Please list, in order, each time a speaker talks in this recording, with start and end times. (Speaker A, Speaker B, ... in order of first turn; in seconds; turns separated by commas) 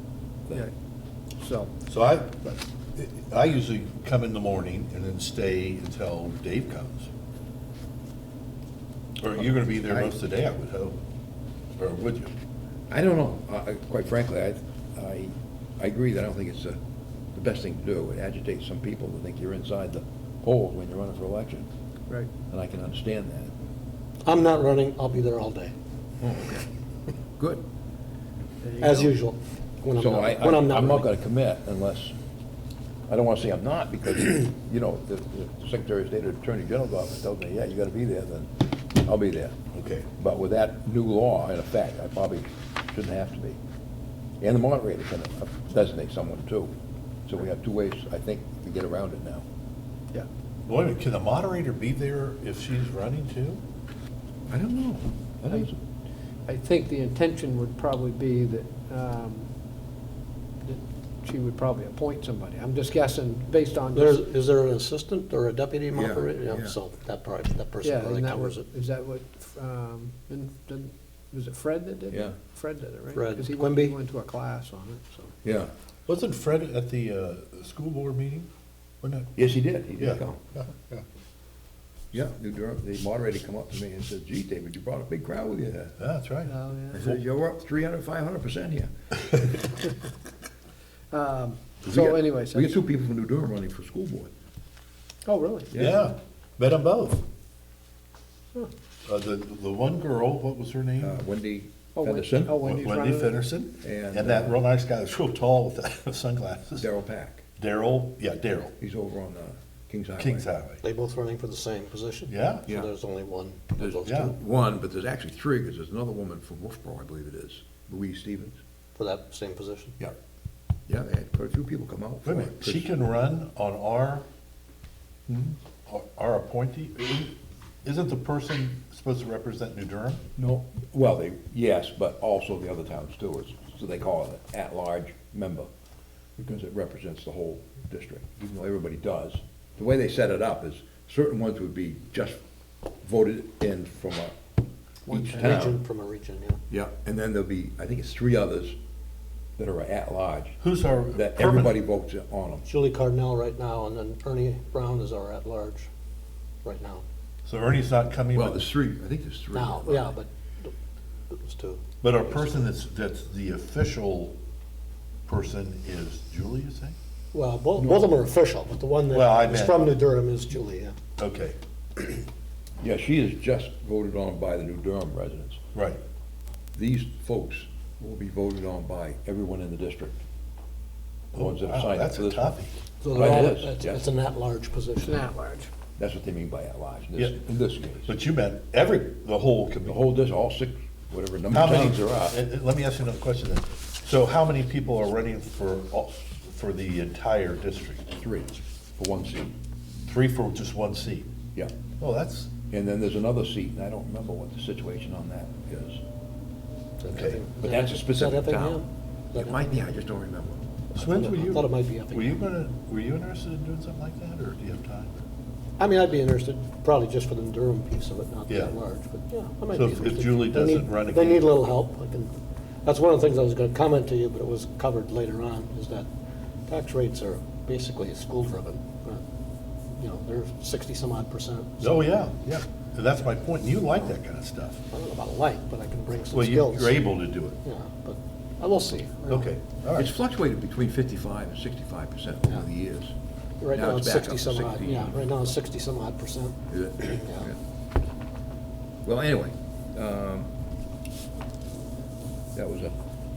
Speaker A: 1.4-1.7, Speaker B: 1.9-7.1, Speaker B: 9.2-10.9, Speaker B: 11.8-12.3, Speaker C: 12.9-16.8, Speaker C: 17.3-21.7, Speaker C: 22.5-23.5, Speaker D: 24.2-25.7, Speaker C: 26.2-26.6, Speaker A: 28.6-29.1, Speaker D: 28.8-31.1, Speaker C: 29.9-32.1, Speaker C: 33.1-39.5, Speaker B: 39.7-40.1, Speaker C: 40.2-43.6, Speaker C: 44.4-46.7, Speaker C: 47.3-49.4, Speaker B: 50.6-53.6, Speaker C: 54.5-55.8, Speaker A: 56.5-59.5, Speaker A: 60.6-64.2, Speaker D: 63.9-68.6, Speaker C: 65.9-66.8, Speaker A: 67.8-75.3, Speaker C: 72.1-72.4, Speaker D: 73.1-73.9, Speaker C: 75.4-75.7, Speaker B: 76.1-78.5, Speaker B: 79.0-79.3, Speaker C: 79.3-80.4, Speaker B: 80.0-81.0, Speaker C: 82.1-86.0, Speaker B: 86.0-87.2, Speaker A: 86.5-87.0, Speaker C: 86.9-88.9, Speaker A: 91.1-92.8, Speaker C: 91.9-94.3, Speaker A: 95.2-95.7, Speaker C: 95.7-96.0, Speaker B: 95.7-97.2, Speaker B: 99.0-101.2, Speaker C: 101.0-102.6, Speaker A: 101.9-103.5, Speaker B: 102.6-106.8, Speaker C: 103.8-104.6, Speaker C: 106.8-107.4, Speaker B: 107.6-108.7, Speaker C: 108.8-110.5, Speaker B: 110.2-110.8, Speaker D: 110.8-114.3, Speaker B: 112.3-112.7, Speaker C: 113.8-118.6, Speaker B: 114.1-114.3, Speaker D: 119.0-120.0, Speaker C: 120.9-122.9, Speaker B: 122.2-124.2, Speaker C: 125.3-125.5, Speaker B: 125.8-130.2, Speaker C: 130.4-135.7, Speaker C: 136.4-142.4, Speaker C: 143.0-144.4, Speaker C: 145.1-145.8, Speaker D: 145.1-146.6, Speaker C: 146.7-148.8, Speaker C: 149.6-150.6, Speaker B: 150.6-151.8, Speaker C: 151.1-152.6, Speaker D: 152.6-155.9, Speaker D: 156.6-157.0, Speaker B: 157.4-158.6, Speaker C: 158.3-160.1, Speaker D: 159.5-160.7, Speaker D: 161.3-162.6, Speaker B: 162.0-164.3, Speaker B: 165.3-166.9, Speaker D: 167.3-171.0, Speaker B: 169.1-169.9, Speaker B: 171.2-171.6, Speaker C: 172.8-175.6, Speaker B: 175.7-176.0, Speaker C: 176.8-180.2, Speaker C: 181.3-182.6, Speaker B: 181.3-182.8, Speaker D: 183.0-185.3, Speaker C: 183.1-184.0, Speaker A: 185.0-185.7, Speaker C: 186.0-188.1, Speaker B: 188.1-190.0, Speaker C: 189.8-192.4, Speaker B: 191.5-198.1, Speaker C: 198.2-199.5, Speaker B: 200.1-201.3, Speaker B: 202.0-202.5, Speaker C: 202.7-206.0, Speaker D: 207.0-209.8, Speaker B: 207.1-207.4, Speaker C: 207.6-210.6, Speaker D: 210.9-212.4, Speaker B: 210.9-215.2, Speaker D: 215.8-226.1, Speaker B: 218.5-218.8, Speaker B: 219.7-221.6, Speaker D: 226.7-229.2, Speaker D: 229.9-232.2, Speaker B: 231.8-234.8, Speaker D: 234.9-239.5, Speaker B: 236.3-237.6, Speaker B: 239.2-240.1, Speaker C: 239.9-243.1, Speaker D: 243.6-246.6, Speaker C: 243.7-245.5, Speaker C: 246.7-247.6, Speaker D: 247.1-247.5, Speaker C: 249.0-250.5, Speaker C: 252.5-252.9